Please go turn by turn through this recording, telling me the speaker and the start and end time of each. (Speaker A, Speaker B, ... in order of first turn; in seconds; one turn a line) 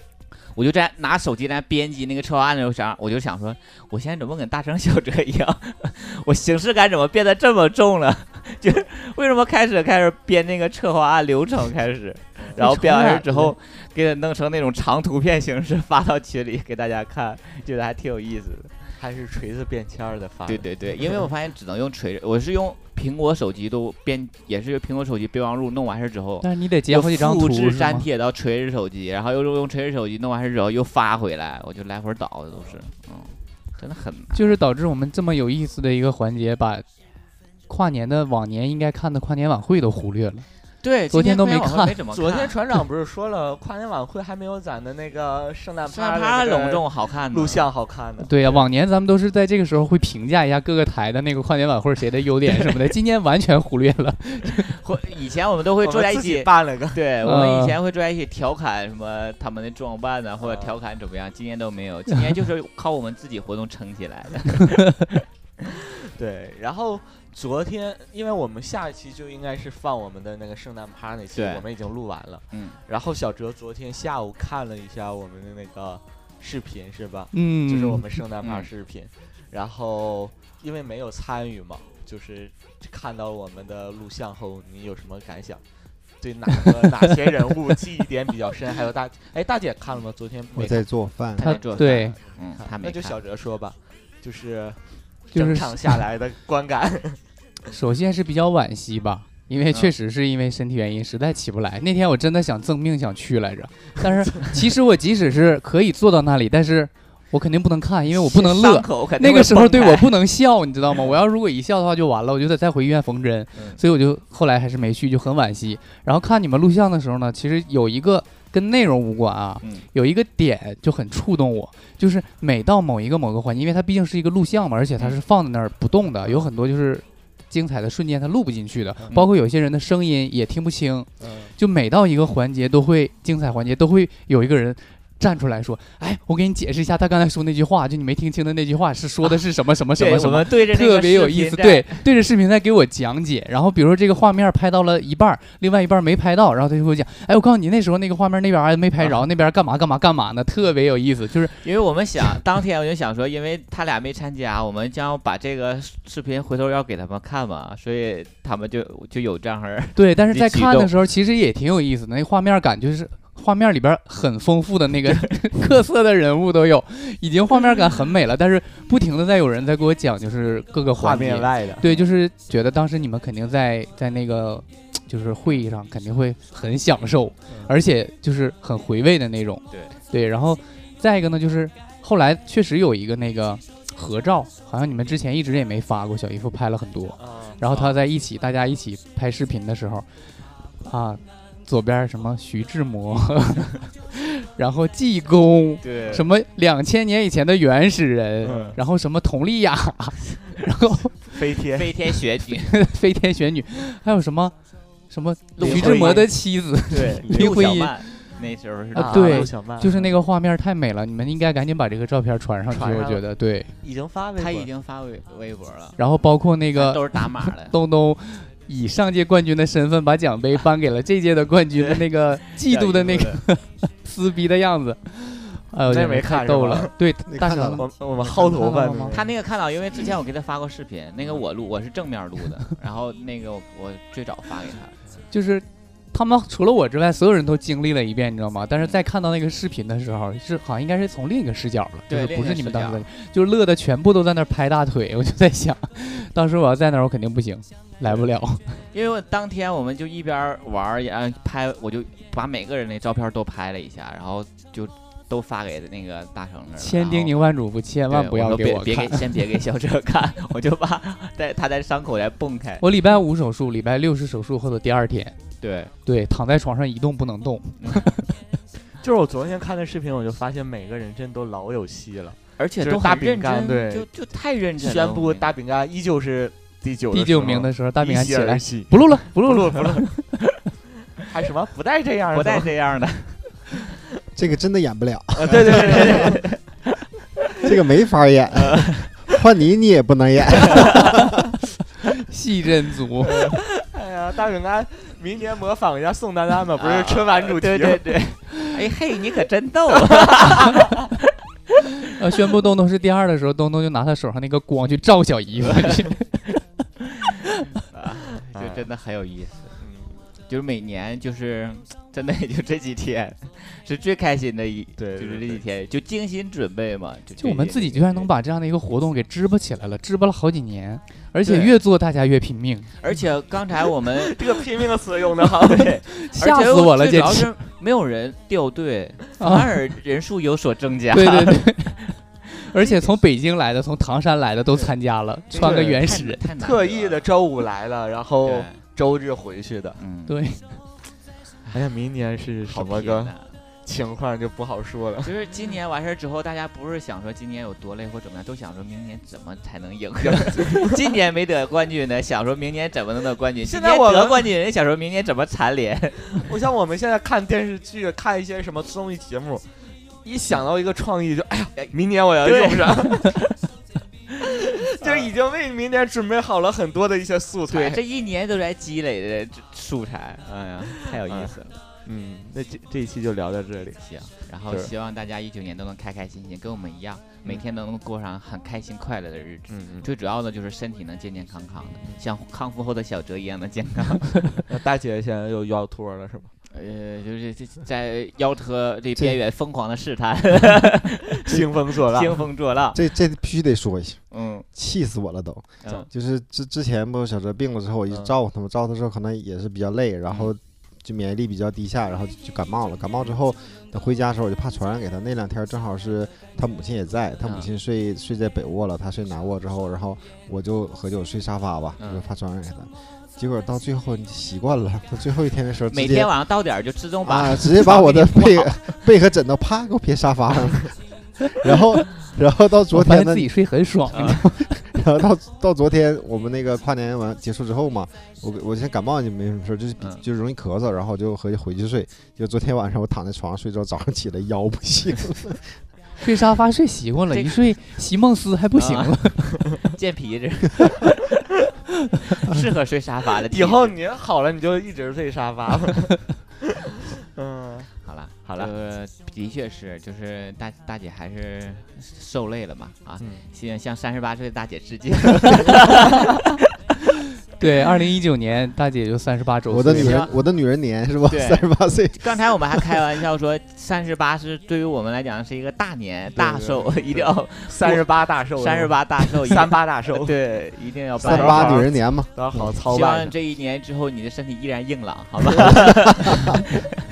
Speaker A: 0.5-18.8
Speaker B: 12.4-13.5
Speaker C: 12.6-13.4
Speaker B: 19.0-21.2
Speaker A: 20.5-34.6
Speaker C: 26.4-28.1
Speaker B: 32.5-32.8
Speaker C: 34.3-36.9
Speaker C: 37.7-40.5
Speaker A: 40.8-42.6
Speaker C: 41.1-42.0
Speaker B: 42.1-48.6
Speaker A: 45.9-47.7
Speaker C: 48.2-54.7
Speaker A: 54.6-65.1
Speaker B: 55.8-57.0
Speaker C: 57.2-57.8
Speaker B: 60.4-60.8
Speaker B: 66.1-85.6
Speaker A: 71.3-71.7
Speaker A: 72.5-72.8
Speaker C: 77.3-78.1
Speaker A: 78.4-78.7
Speaker B: 86.2-90.8
Speaker D: 90.5-91.5
Speaker A: 91.4-93.2
Speaker C: 91.4-92.2
Speaker B: 91.5-97.2
Speaker C: 95.3-96.0
Speaker C: 97.7-151.7
Speaker A: 108.1-110.1
Speaker A: 113.5-113.8
Speaker B: 131.2-131.5
Speaker A: 140.0-142.1
Speaker A: 151.6-160.9
Speaker C: 160.0-190.1
Speaker B: 170.9-171.8
Speaker A: 171.8-172.1
Speaker B: 177.5-177.8
Speaker B: 187.2-187.6
Speaker A: 187.6-188.0
Speaker C: 190.8-201.2
Speaker A: 195.8-196.2
Speaker B: 198.4-198.8
Speaker A: 198.5-198.7
Speaker B: 201.3-201.9
Speaker A: 201.7-202.8
Speaker C: 202.6-204.6
Speaker C: 205.1-208.3
Speaker A: 205.6-206.3
Speaker B: 205.6-206.3
Speaker A: 206.9-209.5
Speaker C: 208.9-213.7
Speaker B: 208.9-210.1
Speaker B: 212.7-213.3
Speaker B: 213.8-214.7
Speaker A: 214.4-216.0
Speaker C: 216.0-229.2
Speaker A: 216.8-217.7
Speaker A: 222.6-223.4
Speaker B: 225.9-226.9
Speaker D: 227.3-227.9
Speaker B: 227.8-229.3
Speaker A: 229.1-234.9
Speaker C: 235.3-248.8
Speaker A: 242.1-243.1
Speaker A: 248.9-257.4
Speaker C: 256.8-259.2
Speaker A: 258.1-262.8
Speaker C: 262.8-265.4
Speaker A: 265.6-265.9
Speaker C: 266.1-268.4
Speaker B: 269.0-274.1
Speaker A: 272.6-275.5
Speaker B: 274.8-280.2
Speaker C: 277.1-280.2
Speaker B: 281.3-282.7
Speaker A: 282.3-283.6
Speaker D: 284.4-286.4
Speaker B: 285.4-286.4
Speaker A: 285.5-286.8
Speaker D: 287.6-291.4
Speaker A: 288.6-289.1
Speaker A: 290.6-291.1
Speaker C: 292.3-293.6
Speaker B: 293.3-298.0
Speaker A: 296.8-301.1
Speaker B: 300.2-300.9
Speaker C: 302.1-306.4
Speaker A: 307.9-309.8
Speaker B: 308.4-308.9
Speaker B: 309.8-310.2
Speaker A: 310.5-318.3
Speaker B: 315.0-315.6
Speaker C: 317.4-322.9
Speaker A: 321.4-321.7
Speaker A: 323.0-324.6
Speaker B: 324.1-325.9
Speaker A: 325.6-331.7
Speaker C: 326.2-327.5
Speaker C: 329.4-329.7
Speaker C: 331.1-336.4
Speaker A: 332.8-333.1
Speaker A: 335.5-337.3
Speaker B: 335.6-336.0
Speaker B: 336.6-340.0
Speaker A: 338.4-338.8
Speaker A: 340.0-340.6
Speaker C: 340.3-340.6
Speaker B: 341.7-343.3
Speaker A: 342.7-343.5
Speaker B: 343.9-345.3
Speaker A: 345.2-356.5
Speaker B: 350.2-350.9
Speaker B: 353.6-354.5
Speaker B: 356.4-359.6
Speaker B: 360.2-363.4
Speaker A: 361.8-363.5
Speaker B: 364.7-368.0
Speaker A: 365.0-365.3
Speaker A: 367.7-371.8
Speaker B: 370.9-374.0
Speaker A: 374.0-384.5
Speaker B: 379.7-380.1
Speaker B: 384.7-386.5
Speaker A: 386.7-393.0
Speaker B: 391.4-392.5
Speaker D: 392.9-394.2
Speaker A: 394.3-394.7
Speaker D: 394.7-416.3
Speaker A: 407.4-407.7
Speaker A: 412.0-412.2
Speaker A: 415.9-419.0
Speaker D: 417.2-423.5
Speaker C: 422.9-424.8
Speaker A: 424.1-424.4
Speaker D: 424.9-435.7
Speaker C: 436.2-439.6
Speaker A: 438.8-439.3
Speaker A: 439.8-441.1
Speaker A: 442.4-444.0
Speaker B: 443.5-446.4
Speaker B: 447.3-448.7
Speaker A: 448.0-456.5
Speaker C: 457.6-460.3
Speaker D: 459.7-462.9
Speaker A: 459.9-460.4
Speaker A: 461.3-471.9
Speaker B: 466.4-470.4
Speaker D: 471.2-472.3
Speaker B: 471.2-473.4
Speaker A: 472.6-476.8